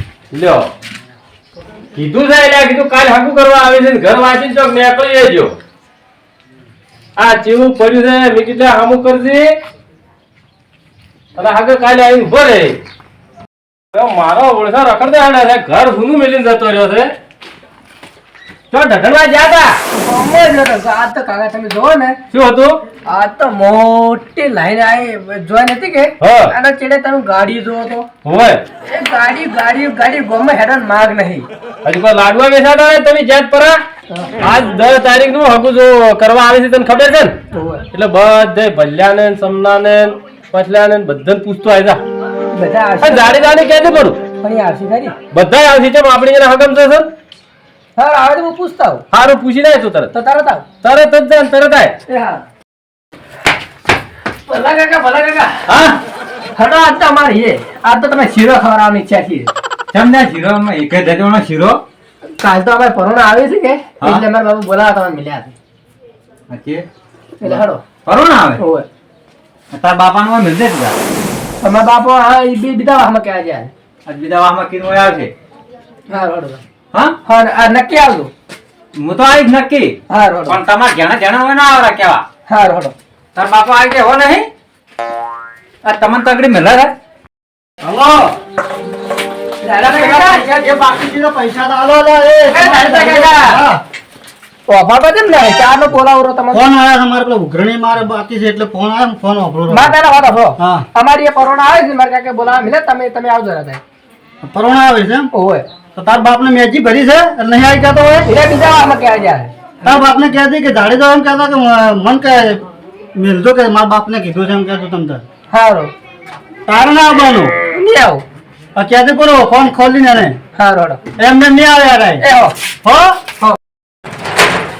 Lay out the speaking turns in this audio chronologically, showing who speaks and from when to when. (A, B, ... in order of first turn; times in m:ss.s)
0:00.3-0:00.7 A
0:01.9-0:05.5 A
0:07.2-0:09.5 A
0:11.4-0:12.8 A
0:13.9-0:17.1 A
0:18.7-0:19.8 A
0:19.9-0:22.2 B
0:22.3-0:22.8 A
0:23.0-0:28.1 B
0:26.2-0:26.5 A
0:28.2-0:28.6 A
0:28.8-0:31.5 B
0:31.8-0:33.8 A
0:34.4-0:37.3 A
0:37.5-0:37.8 B
0:37.9-0:42.0 A
0:42.5-0:43.3 B
0:43.0-0:44.2 A
0:44.4-0:45.2 B
0:45.3-0:47.1 A
0:48.0-0:49.0 B
0:49.1-0:50.1 A
0:50.1-0:50.6 B
0:50.8-0:52.0 A
0:52.1-0:52.4 B
0:54.5-0:55.7 B
0:55.7-0:56.0 C
0:56.5-0:59.5 B
0:59.9-1:01.8 C
1:02.3-1:05.5 B
1:06.5-1:06.8 C
1:07.4-1:07.8 B
1:07.4-1:08.6 C
1:08.6-1:08.8 B
1:09.7-1:11.0 C
1:11.6-1:13.7 B
1:14.0-1:15.3 C
1:16.1-1:16.6 B
1:17.2-1:18.3 B
1:18.9-1:22.2 C
1:20.1-1:20.6 B
1:22.5-1:22.9 B
1:23.3-1:24.5 C
1:25.8-1:26.9 C
1:27.8-1:28.3 D
1:29.6-1:30.7 B
1:29.9-1:33.8 D
1:32.5-1:33.6 B
1:34.7-1:36.6 B
1:36.5-1:39.9 D
1:39.7-1:43.8 B
1:40.6-1:40.8 D
1:44.4-1:45.3 D
1:45.3-1:45.6 B
1:45.9-1:48.3 D
1:48.2-1:49.9 B
1:49.8-1:52.6 D
1:53.2-1:55.2 D
1:55.5-1:55.9 B
1:56.7-1:57.5 D
1:57.7-1:58.2 B
1:58.7-2:00.4 D
2:00.6-2:01.0 B
2:01.2-2:02.2 D
2:02.2-2:02.5 B
2:02.8-2:03.2 D